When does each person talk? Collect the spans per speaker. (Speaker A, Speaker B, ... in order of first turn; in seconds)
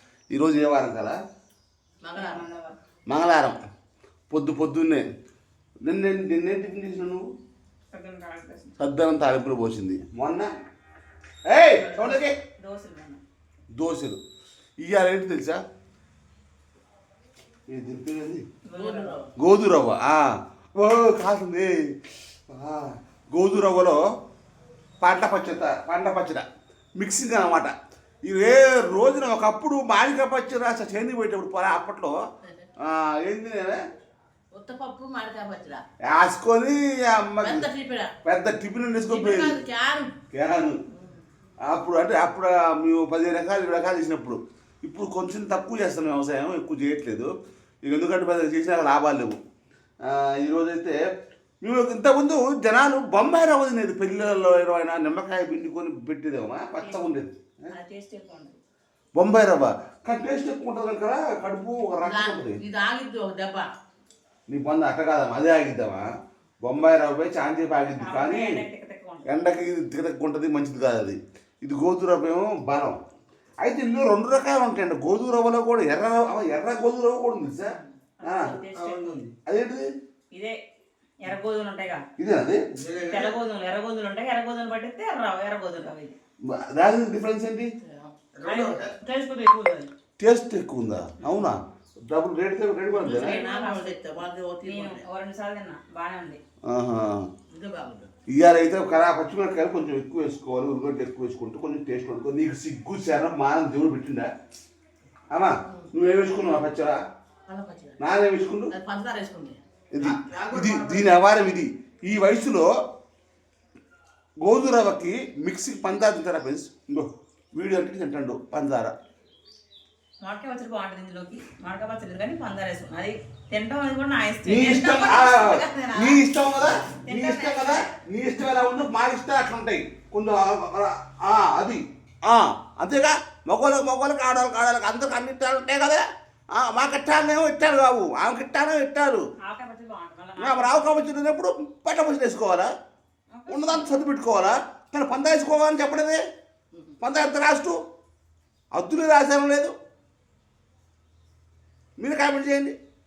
Speaker A: 0.3-1.2, 3.1-3.6, 4.3-5.0, 5.8-7.3, 8.8-10.5, 11.5-12.3, 13.7-14.2, 14.8-15.6, 17.7-18.4, 19.4-20.2, 20.8-21.8, 22.5-24.0, 25.0-26.4, 27.0-27.7, 28.2-32.1, 32.8-33.8, 36.0-37.7, 38.2-39.6, 40.3-40.8, 41.7-47.3, 47.8-49.4, 50.0-51.0, 51.6-57.4, 59.1-62.6, 64.5-66.0, 66.6-68.6, 69.2-73.0, 73.6-79.9, 82.2-83.3, 86.5-87.7, 88.4-88.8, 90.2-91.6, 92.1-93.4, 96.7-97.3, 98.3-104.3, 105.3-107.0, 108.0-108.7, 109.9-112.7, 114.4-118.9, 124.4-136.0, 136.5-139.2, 140.4-142.7, 143.5-146.2, 147.0-147.8, 148.7-149.7, 152.0-152.8
Speaker B: 2.0-2.4, 18.7-19.3, 34.5-35.8, 37.4-38.1, 39.1-40.1, 62.0-63.7, 87.8-88.2, 93.0-95.0, 97.5-98.1, 107.5-108.0, 108.7-111.1
Speaker C: 2.1-2.8, 7.9-8.7, 11.7-13.2, 18.6-19.2, 56.8-57.1, 57.7-58.6, 67.9-69.3, 78.2-79.2, 80.3-80.6, 81.2-82.0, 83.0-86.1, 88.4-89.9, 93.0-93.9, 94.6-96.4, 120.2-126.2, 127.0-127.9, 139.4-140.9, 143.3-144.1